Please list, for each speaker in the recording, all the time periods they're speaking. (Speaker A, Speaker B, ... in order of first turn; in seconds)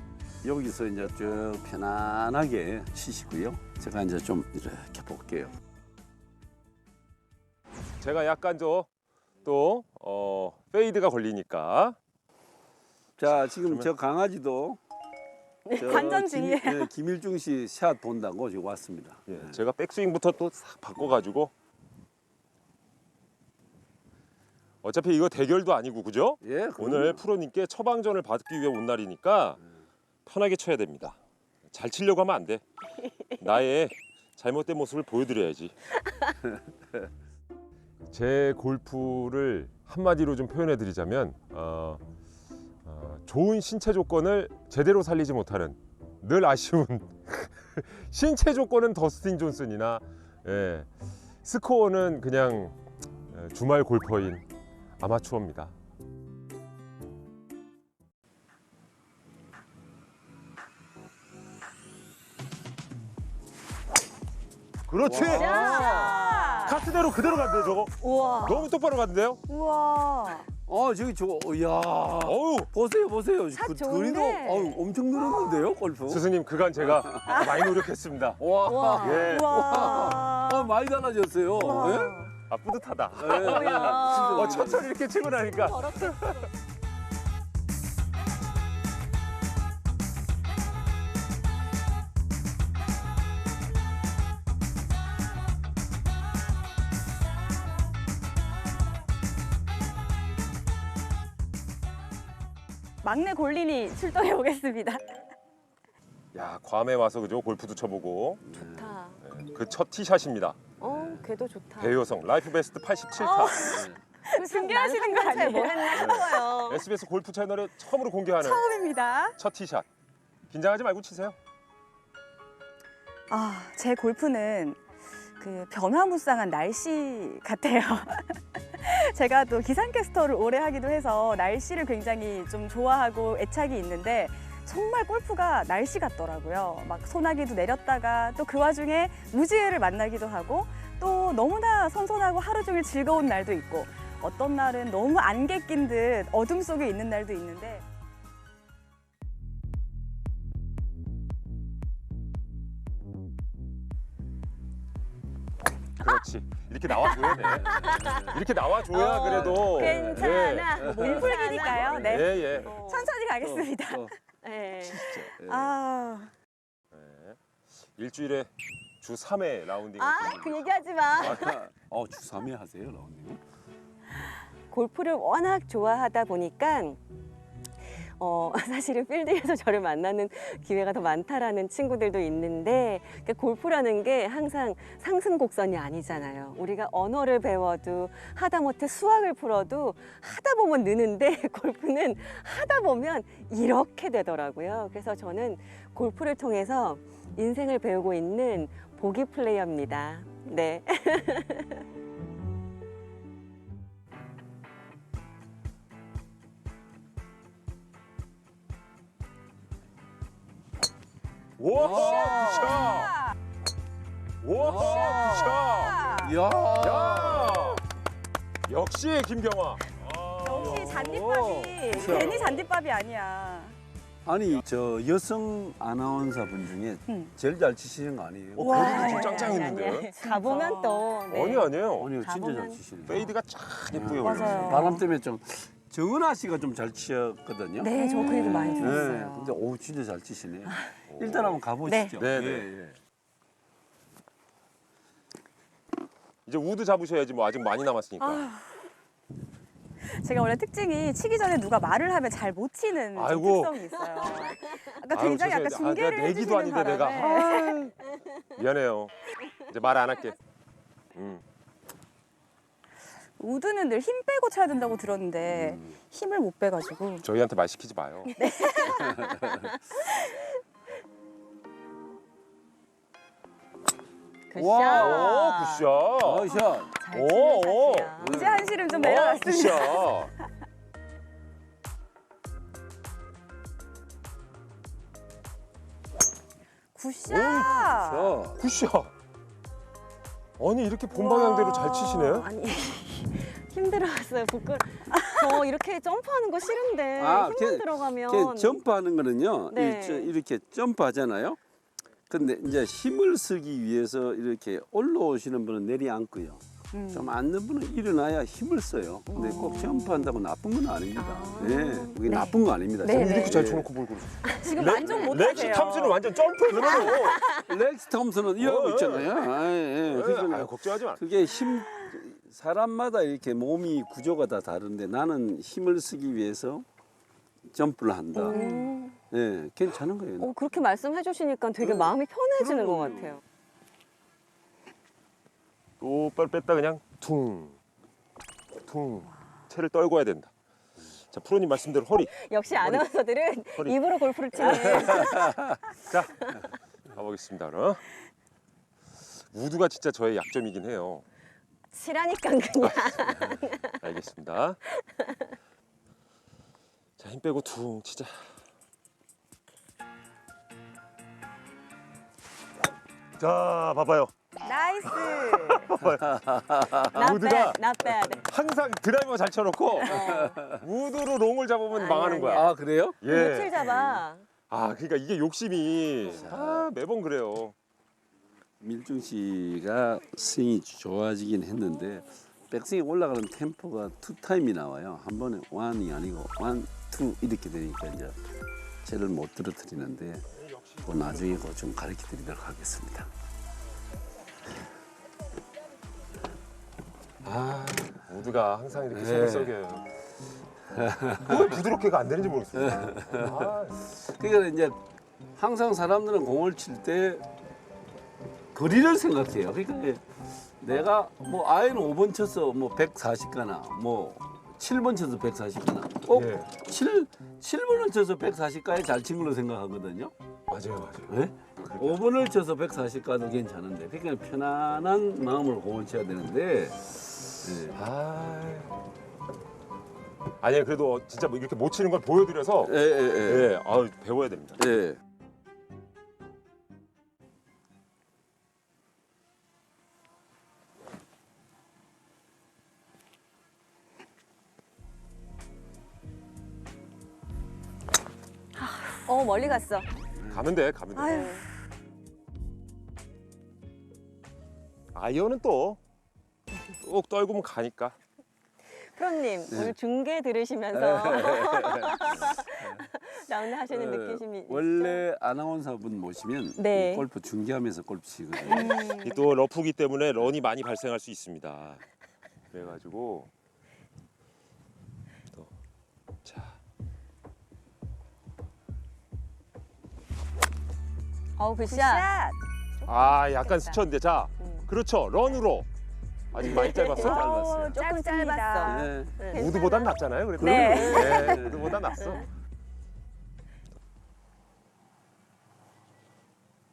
Speaker A: 0.4-5.5, 13.2-14.8, 15.8-19.6, 26.4-27.2, 65.0-66.2, 70.7-76.3, 76.8-77.5, 78.4-82.2, 83.2-84.9, 108.5-109.0, 113.5-114.0, 157.6-158.3, 159.2-161.7, 163.4-164.1, 164.8-165.8, 171.2-173.4, 211.7-212.8, 214.6-215.6, 216.2-217.7, 220.6-222.6, 224.2-229.3, 232.0-233.3, 233.9-243.0, 265.5-266.0, 269.1-269.6, 274.6-275.4, 276.2-276.9, 278.2-278.9, 287.7-288.6, 297.2-301.6, 302.3-313.9, 317.6-326.9, 327.7-328.6, 329.3-330.6, 331.8-333.4, 344.9-345.6, 366.3-367.0, 370.1-370.8, 372.5-373.2, 373.8-374.2, 376.3-376.9, 378.8-388.4, 389.0-390.5, 391.0-393.3, 399.1-399.8, 400.9-401.7, 402.8-405.0, 405.6-407.5, 408.7-410.2, 410.8-420.3, 421.3-428.0, 432.8-433.7, 434.8-435.2, 450.4-450.7, 459.7-459.9, 460.9-463.1, 463.9-469.0, 486.6-488.0, 488.8-489.5, 490.7-492.0
Speaker B: 8.0-8.9, 9.4-12.0, 13.2-13.9, 19.3-21.5, 24.8-29.6, 30.3-31.2, 31.7-32.6, 33.4-35.8, 38.1-42.0, 42.9-50.9, 51.4-52.8, 53.3-54.5, 55.0-55.7, 64.9-65.8, 66.7-69.4, 72.2-72.7, 76.1-78.4, 79.0-79.5, 82.5-86.4, 106.3-108.4, 109.2-111.2, 111.8-113.7, 115.9-118.6, 119.4-119.9, 120.5-121.4, 156.0-160.7, 161.9-162.8, 166.9-167.4, 167.9-171.6, 211.6-213.2, 214.4-216.0, 216.8-217.8, 218.7-221.1, 221.9-222.6, 228.6-230.1, 231.3-232.2, 233.1-235.0, 238.3-238.8, 241.1-241.6, 242.2-242.7, 246.5-248.5, 253.2-253.8, 255.1-258.0, 258.5-260.4, 261.1-261.4, 267.2-268.3, 274.9-276.5, 277.1-278.2, 278.9-280.3, 287.3-287.9, 288.5-289.1, 290.6-292.5, 313.1-317.4, 318.6-321.2, 336.0-337.8, 338.9-340.5, 341.2-343.1, 343.7-344.0, 344.6-345.1, 345.9-346.6, 347.1-348.1, 349.4-351.2, 352.8-353.4, 353.9-354.8, 357.2-358.5, 363.4-364.3, 365.1-367.8, 368.4-372.7, 373.2-374.0, 374.7-377.8, 390.6-391.6, 397.4-400.1, 401.4-404.1, 416.3-416.7, 420.7-422.2, 427.9-429.0, 430.6-435.0, 450.5-451.5, 455.1-456.0, 457.0-458.2, 468.8-472.0, 472.7-473.5, 476.4-476.8, 483.1-485.9, 486.5-487.6, 489.5-492.5
Speaker C: 15.8-16.9, 65.4-66.8, 69.5-70.5, 77.3-77.6, 79.2-80.7, 81.5-82.3, 103.0-105.2, 113.2-116.4, 118.4-119.4, 123.3-124.8, 125.4-147.8, 160.8-164.1, 165.2-166.3, 212.0-213.3, 214.7-216.4, 220.4-223.8, 227.1-227.3, 228.6-231.1, 234.2-235.0, 237.9-239.1, 248.2-248.7, 250.1-257.8, 263.4-267.3, 268.4-269.1, 278.2-280.1, 286.9-288.4, 295.1-295.5, 306.9-307.4, 314.6-317.1, 321.6-322.1, 328.4-328.9, 364.6-365.9, 448.8-449.2, 451.2-451.7, 468.7-469.4, 481.9-482.6, 487.2-489.2, 490.6-491.6
Speaker D: 65.1-66.8, 68.0-68.7, 73.5-74.8, 78.6-80.2, 83.3-86.5, 108.6-109.2, 110.8-112.0, 114.3-116.9, 156.9-158.3, 158.9-163.1, 164.4-165.2, 170.0-171.6, 174.7-177.0, 177.9-201.8, 228.7-232.8, 237.8-239.6, 240.7-241.0, 241.8-242.2, 268.4-270.3, 274.5-275.9, 276.5-279.8, 291.1-298.8, 299.7-300.3, 309.3-310.3, 311.2-313.6, 314.7-315.8, 316.7-317.7, 328.4-329.2, 330.4-333.4, 342.1-345.7, 351.9-353.9, 367.1-368.4, 370.0-370.6, 371.9-372.7, 373.2-374.5, 449.3-450.1, 451.3-451.6, 459.0-465.2, 466.8-467.3, 481.6-482.4, 483.1-484.0, 484.6-484.9, 486.6-490.2, 490.8-492.5